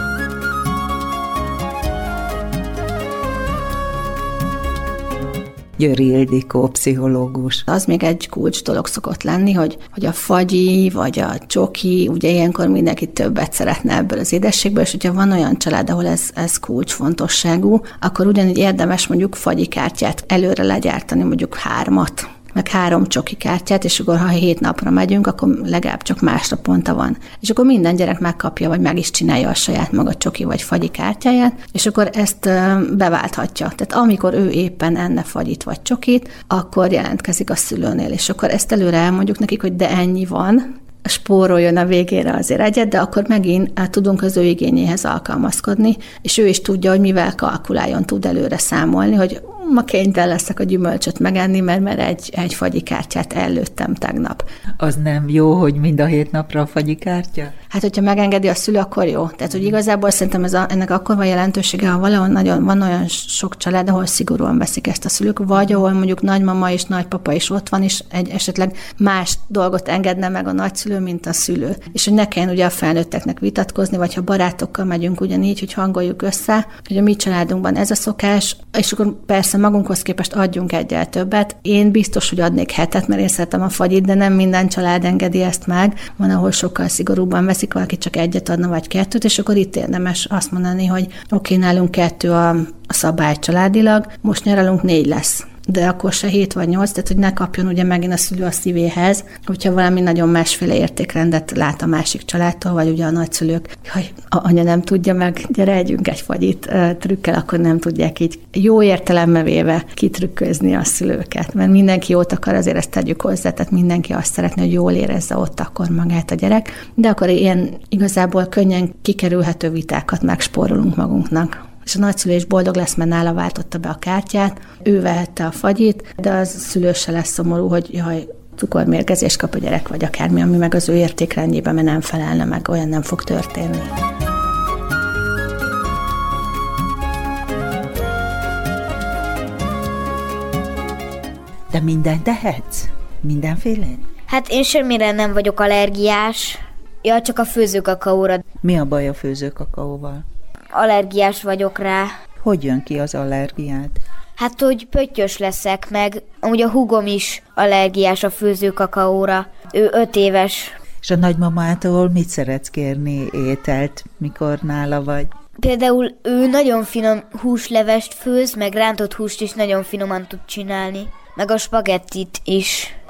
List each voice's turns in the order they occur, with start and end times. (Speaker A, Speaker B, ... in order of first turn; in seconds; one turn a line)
Speaker A: 5.8-7.7
Speaker B: 7.7-54.5
Speaker A: 54.8-57.5
Speaker B: 57.7-133.9
Speaker A: 141.7-144.1
Speaker C: 144.3-148.4
Speaker A: 148.6-150.2
Speaker C: 150.7-152.1
Speaker A: 152.4-154.0
Speaker C: 154.4-160.7
Speaker A: 161.0-165.3
Speaker C: 165.6-172.9